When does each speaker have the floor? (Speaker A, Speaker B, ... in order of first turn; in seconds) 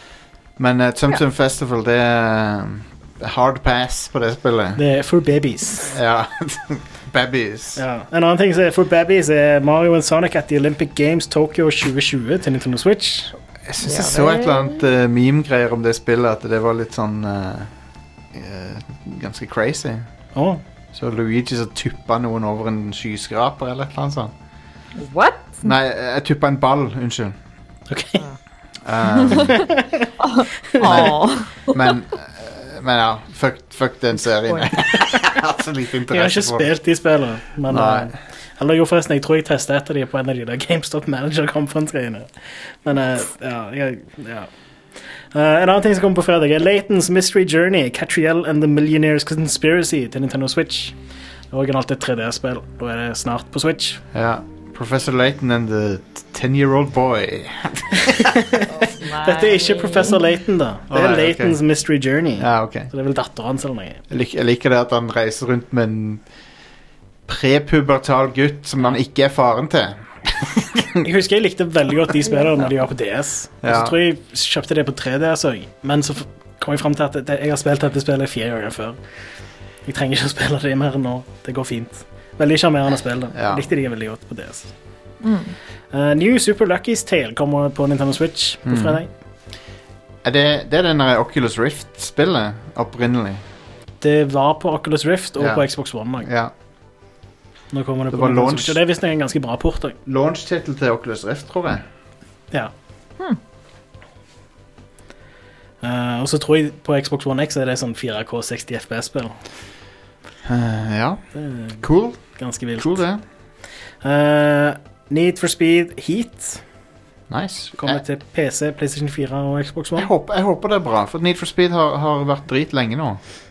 Speaker A: 0.6-4.8, 5.8-7.8, 13.7-17.7, 18.3-20.1, 20.9-24.3, 25.6-27.4, 28.8-29.7, 30.8-36.7, 37.7-38.1, 54.1-58.3, 60.9-61.6, 62.4-62.9, 64.1-66.2, 67.3-71.0, 73.6-74.0, 83.3-83.7, 88.7-89.0, 90.2-93.4, 95.4-96.5, 98.1-98.8, 100.1-101.9, 110.5-111.2, 111.8-113.2, 117.3-118.0, 120.0-123.2
Speaker B: 4.8-6.0, 7.8-13.3, 20.4-20.6, 27.9-28.3, 29.6-30.1, 30.8-31.1, 36.1-44.5, 45.1-51.0, 51.5-54.0, 58.0-64.0, 71.0-79.0, 79.8-84.7, 85.9-89.1, 94.0-96.3, 97.7-100.0, 105.8-109.4, 111.3-113.0, 114.0-116.6, 117.8-120.1
Speaker C: 13.8-14.8, 25.0-25.7, 29.2-29.5, 30.2-31.9, 58.7-60.2, 85.2-85.5